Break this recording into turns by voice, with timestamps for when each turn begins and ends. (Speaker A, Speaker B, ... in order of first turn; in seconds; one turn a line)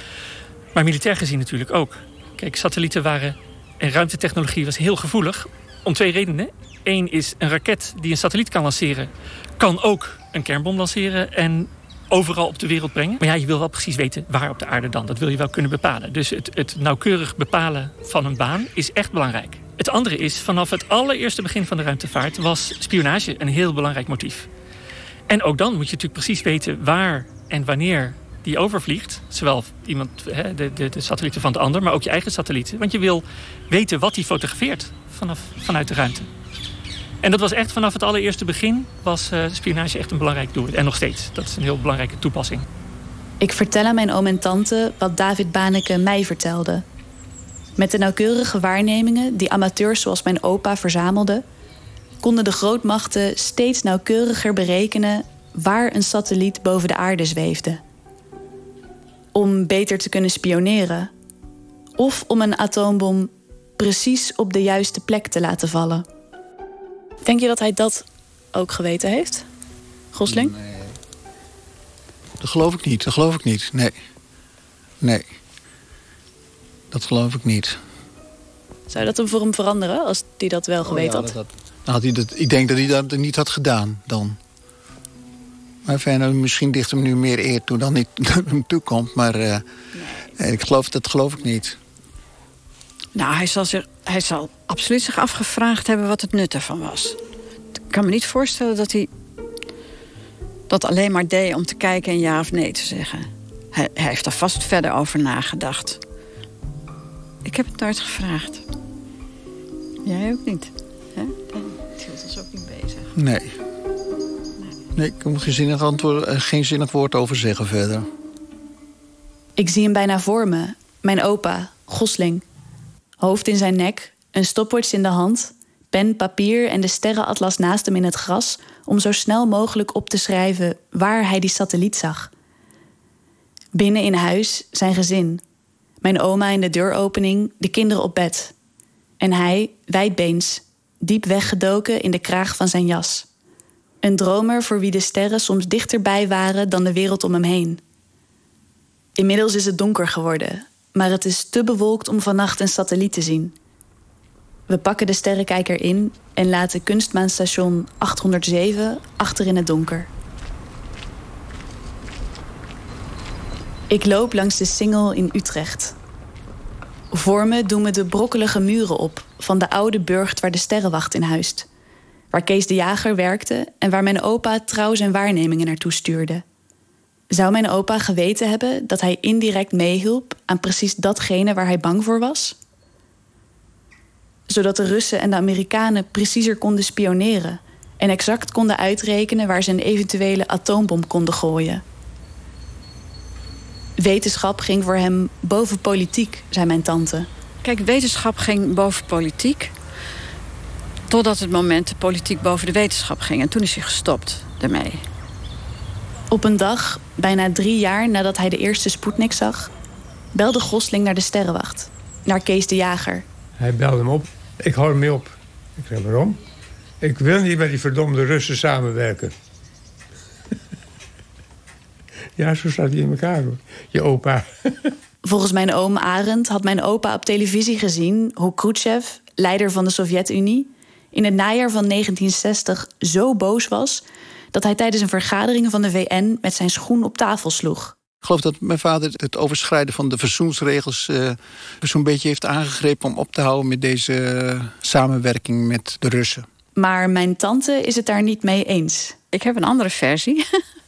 Speaker A: 0.7-24.5
Speaker A: 25.3-36.3
Speaker A: 37.2-42.6
Speaker B: 43.4-46.8
Speaker B: 47.8-51.4
Speaker B: 52.2-57.8
Speaker B: 59.3-61.1
Speaker B: 62.0-66.0
Speaker B: 67.2-69.5
Speaker B: 70.1-70.5
Speaker C: 70.3-70.9
Speaker C: 72.4-73.9
Speaker C: 75.0-75.3
Speaker C: 76.9-77.8
Speaker B: 78.9-81.3
Speaker C: 80.8-84.4
Speaker C: 85.8-89.6
Speaker C: 90.3-91.8
Speaker D: 93.1-97.2
Speaker D: 97.9-99.1
Speaker D: 100.7-106.0
Speaker D: 107.4-108.6
Speaker D: 110.0-113.1
Speaker C: 113.1-113.5
Speaker C: 114.9-118.1
Speaker B: 119.6-122.4
Speaker B: 123.2-132.3
Speaker B: 133.8-135.4
Speaker B: 136.0-138.5
Speaker B: 139.2-143.3
Speaker B: 144.0-147.8
Speaker B: 149.2-153.5
Speaker B: 154.7-160.1
Speaker B: 163.9-165.9
Speaker B: 167.1-171.7
Speaker B: 172.3-176.4
Speaker B: 177.3-182.6
Speaker B: 184.5-191.8
Speaker B: 194.0-197.3
Speaker D: 197.6-199.7
Speaker D: 201.1-205.0
Speaker B: 206.3-209.7
Speaker B: 210.3-213.2
Speaker E: 213.6-216.4
Speaker E: 217.0-219.3
Speaker E: 222.4-224.9
Speaker B: 225.2-237.9
Speaker C: 238.2-246.4
Speaker B: 246.8-249.2
Speaker D: 249.3-250.6